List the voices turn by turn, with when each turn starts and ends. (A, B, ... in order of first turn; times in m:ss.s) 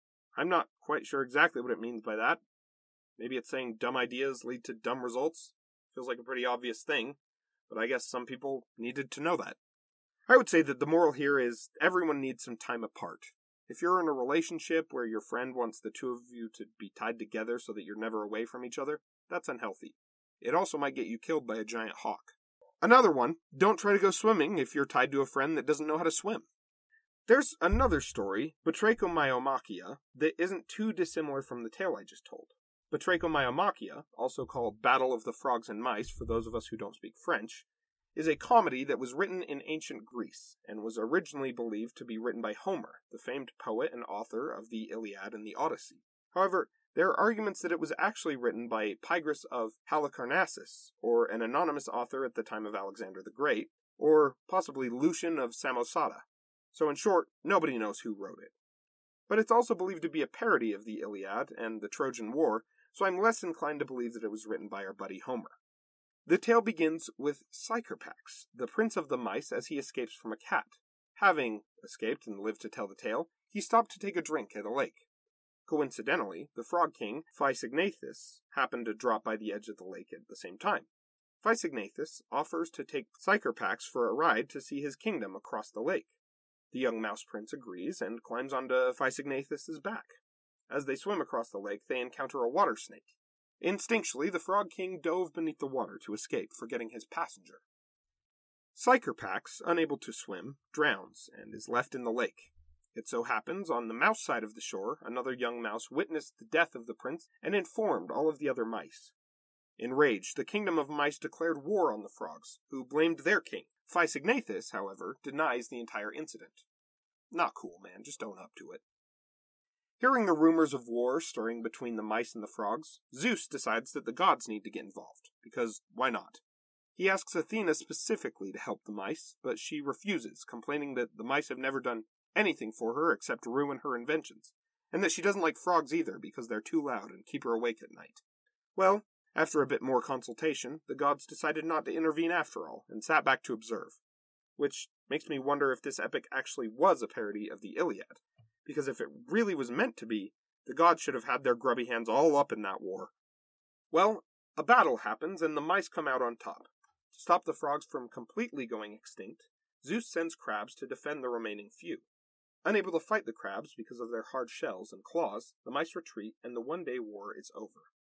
0:00.4-0:02.4 A
0:03.2-0:07.2 A
0:07.7-0:09.6 A
0:10.3-0:26.5 A
0:27.3-0:58.5 A
0:59.3-1:05.6 A
1:06.3-1:15.0 A
1:15.7-1:20.9 A
1:21.4-1:26.1 A
1:26.7-1:30.2 A
1:30.7-1:37.6 A
1:38.8-1:49.1 A
1:49.8-1:56.6 A
1:57.3-1:58.8 A
2:00.0-2:06.4 A
2:07.0-2:18.2 A
2:18.8-2:24.0 A
2:24.6-2:33.1 A
2:33.9-2:42.0 A
2:42.6-2:47.9 A